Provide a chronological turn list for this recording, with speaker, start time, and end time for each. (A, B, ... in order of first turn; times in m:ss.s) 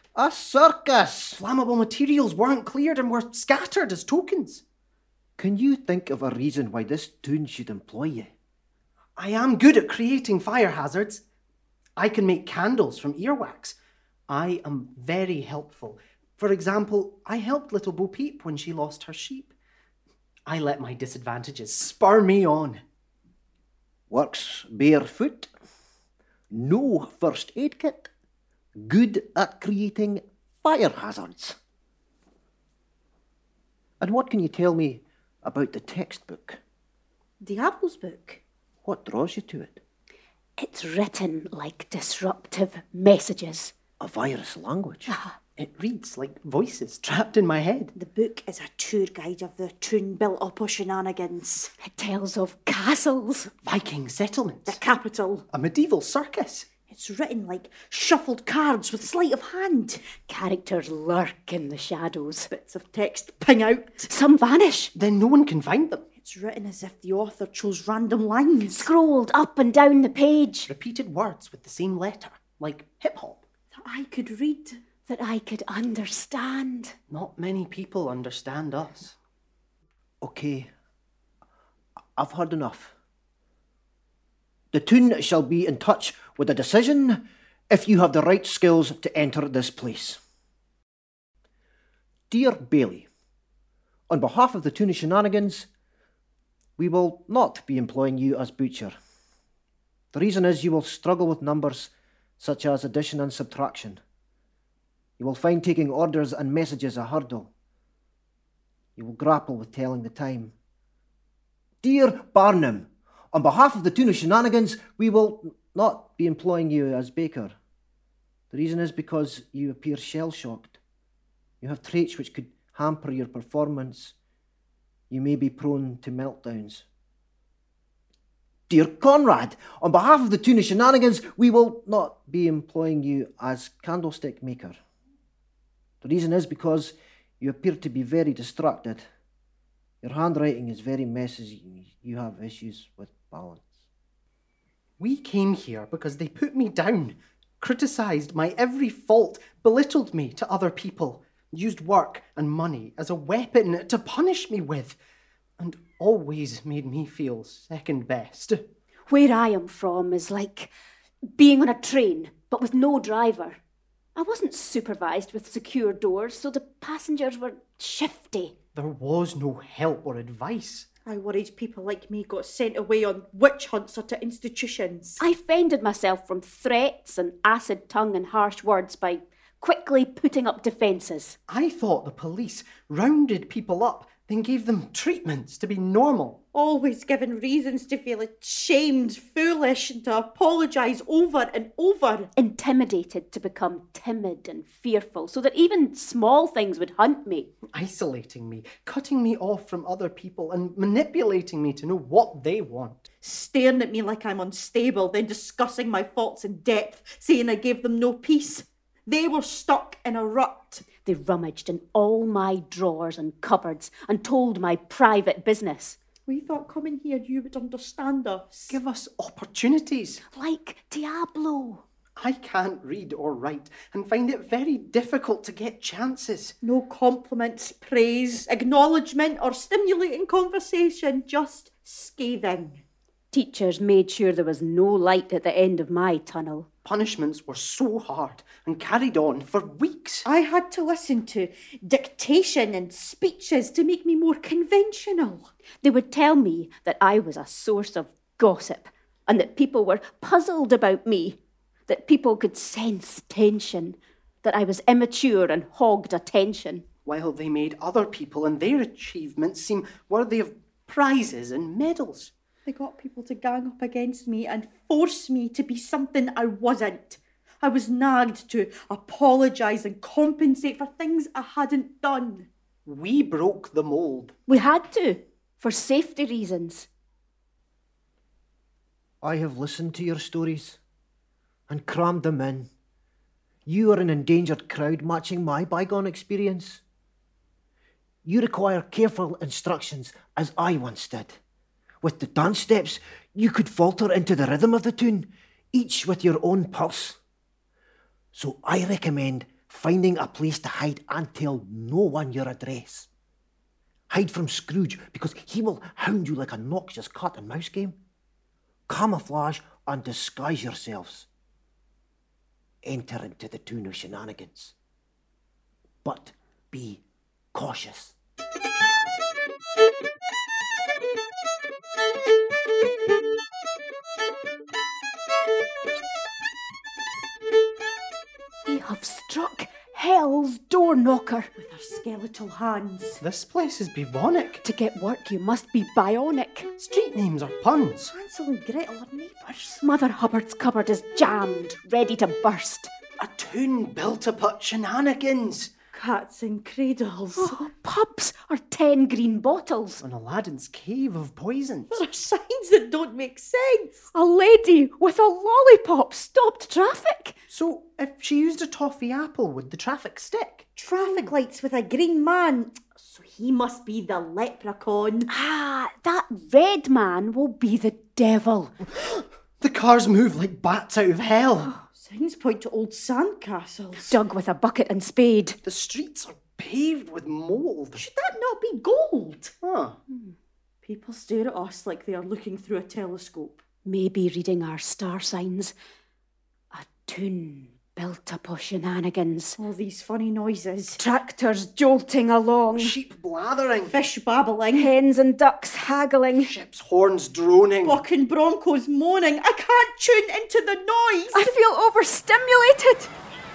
0:00.2-0:01.4 A
0:01.4-0:04.6 B
0:05.4-0:08.3 A
0:09.2-0:11.2 B
0:12.0-0:13.8 B
0:14.3-0:19.5 B
0:20.5-0:22.8 B
0:24.1-0:25.5 A
0:26.5-0:28.1 A
0:28.8-0:31.6 A
0:34.0-0:36.6 A
0:37.4-0:38.4 C
0:38.8-0:39.8 A
0:40.6-0:43.7 D
0:44.0-0:45.1 A
0:45.1-0:45.4 D
0:45.6-0:47.9 B
0:48.0-0:51.7 C
0:51.8-0:53.5 D
0:53.6-0:54.8 B
0:54.7-0:55.4 C
0:55.5-0:56.7 B
0:56.9-1:00.0 C
1:00.3-1:02.5 D
1:02.5-1:04.1 C
1:04.1-1:04.9 D
1:05.0-1:06.0 B
1:06.2-1:08.9 C
1:08.7-1:10.7 D
1:10.7-1:13.4 B
1:13.8-1:14.8 C
1:15.1-1:17.0 D
1:17.1-1:19.2 B
1:20.2-1:20.7 A
1:22.2-1:22.9 A
1:24.7-1:30.2 A
1:32.3-1:33.1 A
1:34.1-1:35.7 A
1:36.8-1:39.0 A
1:40.1-1:44.0 A
1:45.2-1:47.5 A
1:49.0-1:50.5 A
1:51.8-1:57.6 A
1:58.5-2:00.8 A
2:01.6-2:04.2 A
2:05.1-2:06.9 A
2:08.7-2:14.8 A
2:16.0-2:19.1 A
2:20.0-2:23.8 A
2:25.0-2:35.0 B
2:35.6-2:38.6 B
2:39.1-2:40.7 D
2:41.4-2:43.6 D
2:44.2-2:48.5 D
2:48.8-2:50.9 B
2:51.1-2:55.2 C
2:55.2-3:01.4 D
3:01.5-3:06.4 B
3:06.5-3:12.3 C
3:12.4-3:17.5 D
3:17.7-3:23.1 B
3:23.2-3:30.8 C
3:31.0-3:36.0 D
3:36.3-3:38.8 C
3:38.7-3:40.2 B
3:40.3-3:41.8 D
3:42.2-3:46.6 B
3:46.6-3:52.8 C
3:53.3-3:56.7 D
3:56.8-4:00.3 B
4:00.2-4:05.5 C
4:05.8-4:16.8 D
4:17.1-4:22.3 B
4:22.7-4:32.5 C
4:32.9-4:34.4 B
4:34.5-4:36.9 D
4:39.2-4:40.8 A
4:41.7-4:42.7 A
4:43.7-4:46.8 A
4:48.2-4:51.4 A
4:52.0-4:57.2 A
4:58.3-5:03.1 A
5:04.1-5:08.0 A
5:08.9-5:11.3 A
5:12.8-5:14.7 A
5:16.0-5:17.0 A
5:17.5-5:18.2 A
5:28.7-5:31.5 D
5:31.6-5:33.2 C
5:33.2-5:34.6 B
5:34.6-5:36.7 D
5:36.8-5:38.1 B
5:38.1-5:39.8 C
5:39.8-5:42.9 D
5:43.2-5:45.7 B
5:45.9-5:47.6 C
5:47.4-5:50.0 D
5:50.0-5:52.0 B
5:51.9-5:54.0 C
5:54.1-5:57.4 D
5:57.5-6:00.7 B
6:00.8-6:05.3 C
6:05.3-6:08.8 D
6:09.6-6:11.7 B
6:11.9-6:14.2 C
6:14.0-6:15.6 D
6:15.6-6:18.1 B
6:18.0-6:19.5 C
6:19.6-6:20.0 B
6:20.1-6:20.4 D
6:20.8-6:23.6 C
6:23.8-6:25.7 D
6:26.7-6:29.6 D
6:29.6-6:31.0 C
6:31.0-6:33.0 D
6:32.8-6:34.0 B
6:33.9-6:34.9 C
6:34.7-6:36.5 D
6:36.4-6:38.0 B
6:37.8-6:41.5 C
6:41.3-6:43.1 D